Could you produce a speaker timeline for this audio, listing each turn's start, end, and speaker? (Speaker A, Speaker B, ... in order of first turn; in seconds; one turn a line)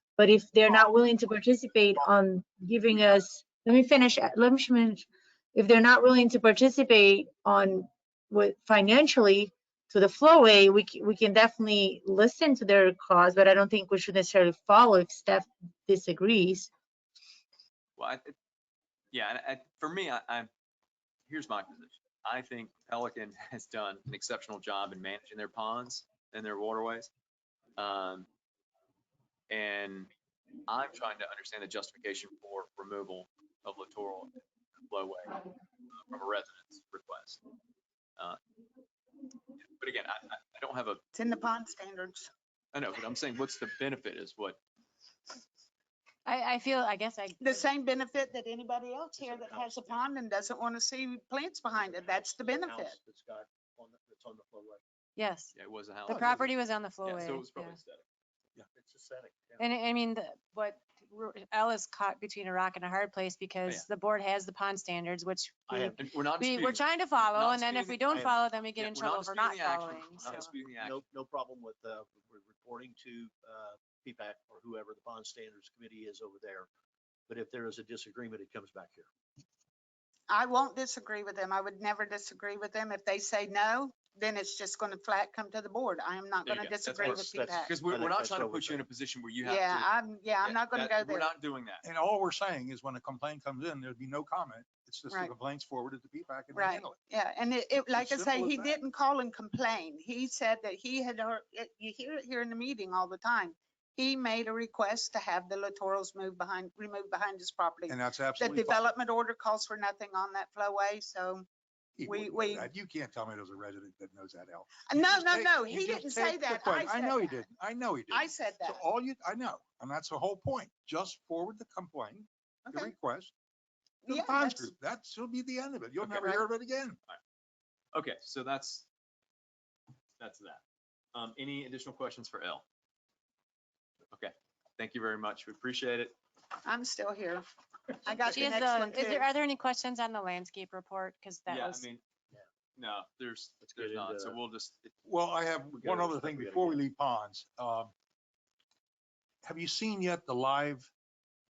Speaker A: 0.2-16.7
Speaker B: 18.0-18.4
Speaker B: 19.1-20.5
Speaker B: 21.3-27.1
Speaker B: 27.8-28.3
Speaker B: 29.5-30.1
Speaker B: 30.7-34.3
Speaker B: 34.9-37.4
Speaker B: 39.7-41.0
Speaker C: 41.1-42.3
Speaker B: 42.7-44.6
Speaker D: 46.3-47.6
Speaker C: 47.4-53.0
Speaker E: 49.2-50.0
Speaker E: 51.8-54.8
Speaker D: 55.2-55.5
Speaker B: 55.5-56.5
Speaker D: 56.1-57.8
Speaker B: 57.0-58.0
Speaker E: 58.7-59.7
Speaker D: 59.6-70.5
Speaker E: 65.7-66.0
Speaker B: 66.0-71.0
Speaker E: 70.2-76.7
Speaker E: 77.3-79.1
Speaker C: 80.3-87.8
Speaker B: 86.4-89.9
Speaker E: 87.1-88.8
Speaker C: 89.4-91.3
Speaker B: 90.4-91.8
Speaker F: 91.8-97.0
Speaker C: 96.5-111.5
Speaker F: 97.9-98.8
Speaker F: 107.9-108.8
Speaker F: 112.0-123.3
Speaker C: 112.1-112.7
Speaker C: 114.9-117.4
Speaker C: 118.1-118.8
Speaker C: 124.0-124.7
Speaker F: 124.1-127.0
Speaker B: 126.0-126.4
Speaker B: 127.9-128.9
Speaker B: 130.2-130.6
Speaker B: 131.1-132.6
Speaker B: 134.1-136.1
Speaker C: 136.7-137.4
Speaker C: 138.0-139.2
Speaker D: 138.3-141.9
Speaker B: 141.5-142.0
Speaker B: 142.8-144.9
Speaker E: 143.6-144.4
Speaker F: 145.1-147.9
Speaker E: 145.8-146.8
Speaker F: 149.4-150.9